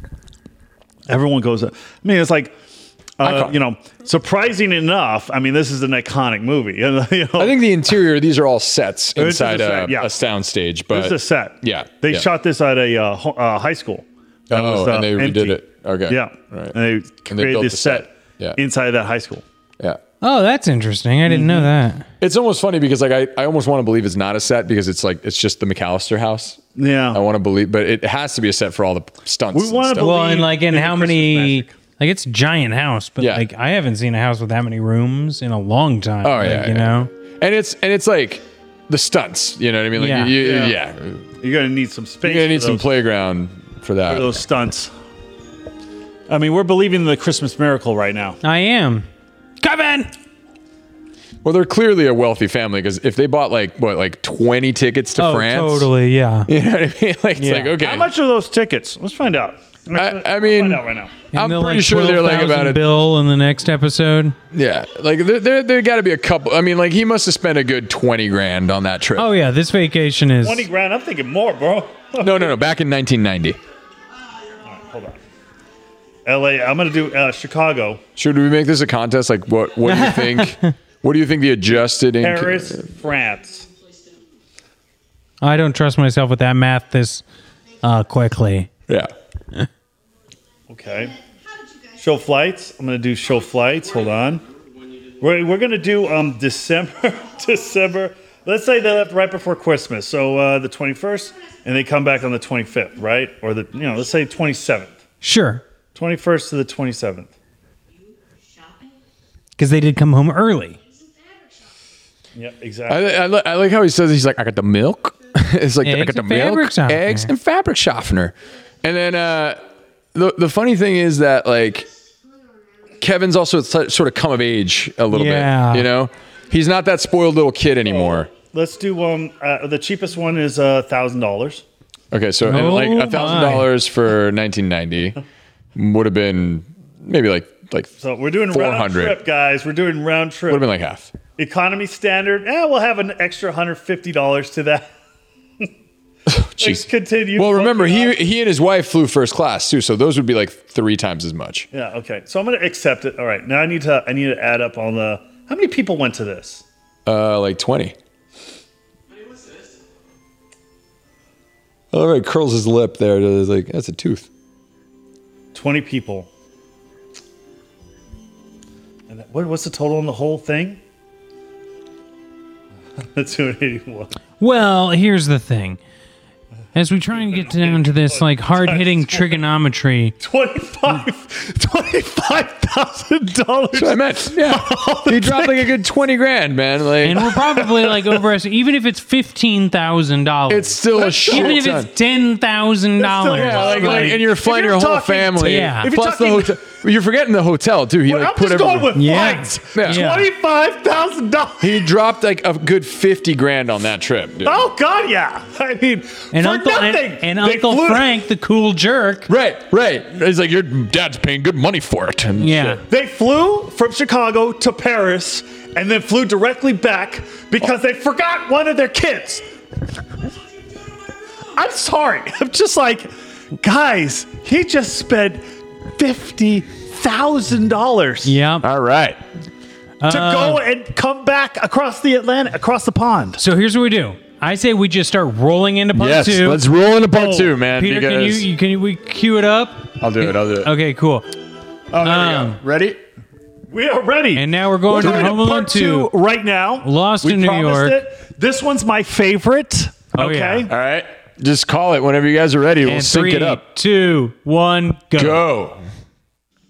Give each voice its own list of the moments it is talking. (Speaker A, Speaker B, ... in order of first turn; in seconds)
Speaker A: 1.1-2.5, 3.2-7.6, 9.2-10.1, 10.9-19.4, 21.3-21.7, 26.8-27.2, 29.5-31.7, 40.4-40.8, 41.4-42.9, 44.1-44.9, 46.3-48.4, 57.8-61.2, 70.4-72.6, 74.7-75.2, 76.3-78.0, 82.2-83.7, 90.7-91.1, 92.0-94.4, 95.2-104.9, 105.9-107.3, 112.3-113.1, 128.0-131.6, 138.0-140.6, 141.4-144.9, 146.6-148.2, 151.7-156.6, 165.5-166.3, 169.1-170.8, 173.1-174.1, 177.2-179.3, 180.2-185.7, 187.4-188.1, 190.9-191.7, 193.0-196.6, 198.1-201.9, 204.4-208.2, 212.9-219.4, 221.6-225.4, 226.0-228.4, 230.1-233.4, 237.1-237.5, 243.7-250.7
Speaker B: 3.2-3.5, 7.4-12.3, 14.5-16.7, 17.3-18.6, 22.2-26.6, 27.1-30.1, 33.2-33.5, 36.2-41.2, 42.2-44.4, 51.4-55.9, 56.5-58.1, 59.9-62.8, 64.5-69.3, 72.2-73.6, 78.2-82.8, 112.9-119.6, 120.1-121.9, 123.0-128.3, 132.1-135.2, 135.7-137.9, 138.5-139.2, 140.5-141.1, 146.3-151.7, 157.1-157.9, 161.9-164.3, 183.7-187.5, 190.5-191.9, 193.3-198.9, 199.7-200.0, 201.6-204.7, 209.3-212.8, 228.6-229.2, 235.9-238.4, 240.0-240.7, 241.9-243.0, 245.0-245.4, 250.7-253.6, 255.2-255.8
Speaker C: 20.2-22.1, 30.0-37.1, 40.0-40.4, 48.4-49.1, 49.6-50.1, 55.2-56.5, 57.4-57.7, 61.3-64.3, 69.2-70.7, 79.9-80.7, 85.4-87.2, 87.8-88.7, 105.2-105.6, 109.6-110.8, 115.8-117.3, 125.1-125.9, 132.4-133.7, 174.4-175.8, 176.7-180.1, 187.0-194.2, 195.4-195.9, 198.9-200.3, 206.3-209.3, 212.4-212.8, 228.2-228.7, 230.0-230.6, 233.4-236.6, 237.8-241.3, 242.0-242.6, 244.3-246.1, 246.8-248.0, 250.1-250.7, 252.8-255.4